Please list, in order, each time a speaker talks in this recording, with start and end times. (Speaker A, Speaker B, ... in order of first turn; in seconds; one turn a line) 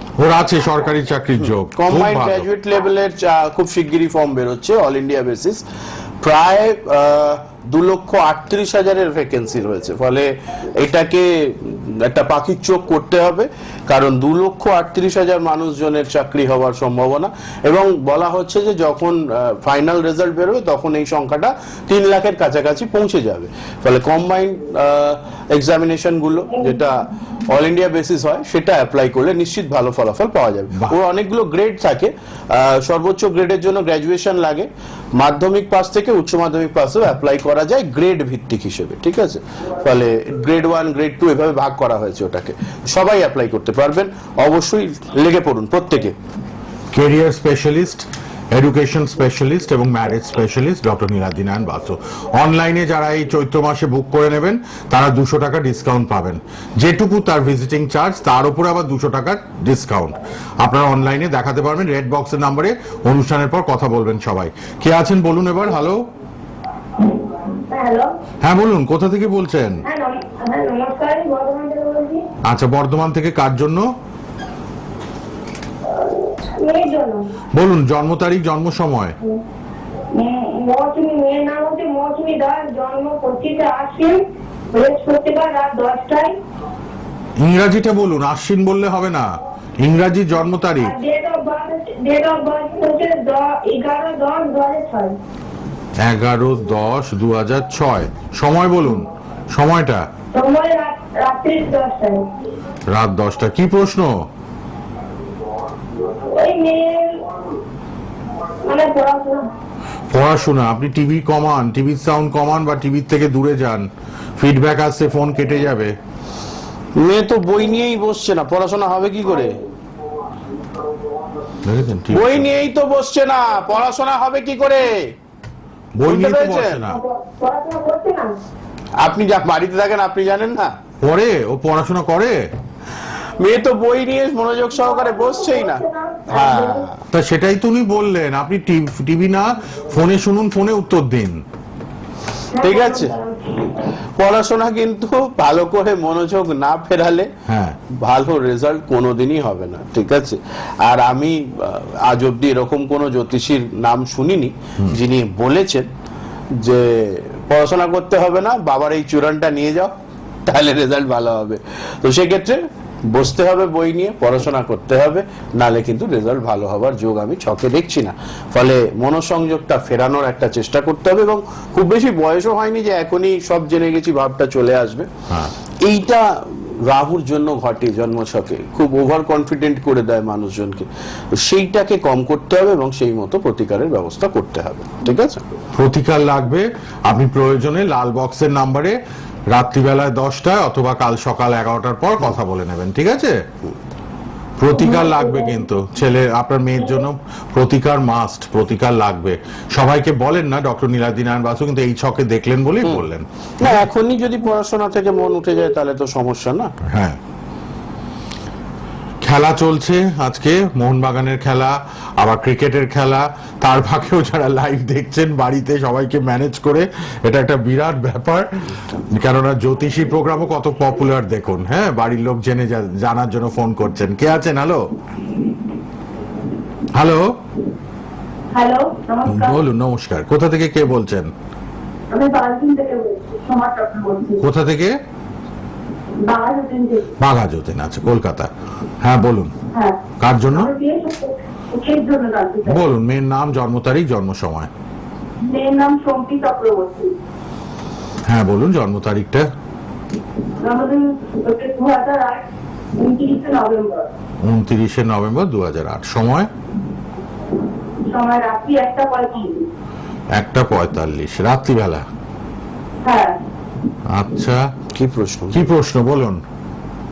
Speaker A: 0.2-2.5
Speaker B: 1.7-5.6
Speaker B: 6.2-46.1
Speaker A: 46.9-66.1
Speaker C: 67.0-68.1
Speaker A: 68.4-69.8
Speaker C: 69.8-72.2
Speaker A: 72.4-73.9
Speaker C: 75.8-77.3
Speaker A: 77.5-79.2
Speaker C: 80.1-86.4
Speaker A: 87.4-91.0
Speaker C: 90.8-95.2
Speaker A: 96.0-100.1
Speaker C: 100.3-102.3
Speaker A: 102.9-104.3
Speaker C: 106.0-107.2
Speaker C: 108.6-109.5
Speaker A: 110.1-116.0
Speaker B: 117.0-119.6
Speaker A: 121.6-122.5
Speaker B: 122.1-125.1
Speaker A: 126.0-127.0
Speaker B: 126.0-126.8
Speaker C: 126.8-128.4
Speaker B: 129.0-130.8
Speaker A: 131.0-132.5
Speaker B: 133.4-137.0
Speaker C: 134.8-136.9
Speaker A: 137.1-141.4
Speaker C: 142.5-143.8
Speaker B: 142.6-143.2
Speaker B: 144.2-147.3
Speaker A: 147.4-147.8
Speaker B: 147.9-155.9
Speaker B: 156.5-159.9
Speaker B: 160.4-175.1
Speaker B: 175.8-185.4
Speaker A: 185.7-189.0
Speaker A: 189.5-193.4
Speaker A: 194.6-203.8
Speaker C: 194.8-195.6
Speaker B: 203.6-206.7
Speaker A: 206.8-207.2
Speaker A: 209.2-224.9
Speaker A: 226.9-227.3
Speaker C: 228.5-229.6
Speaker A: 229.2-231.3
Speaker C: 232.1-234.4
Speaker A: 234.4-235.0
Speaker C: 236.2-237.1
Speaker A: 237.2-238.5
Speaker A: 239.0-239.5
Speaker C: 239.7-240.0
Speaker A: 240.2-240.7
Speaker C: 240.5-242.8
Speaker A: 242.7-244.7
Speaker C: 245.4-247.1
Speaker A: 248.2-249.5
Speaker C: 250.6-252.4
Speaker C: 252.9-254.1
Speaker A: 254.4-256.5
Speaker C: 258.1-259.7
Speaker A: 260.3-262.1
Speaker C: 263.0-263.4
Speaker A: 264.1-264.7
Speaker B: 264.9-265.6
Speaker A: 265.5-266.4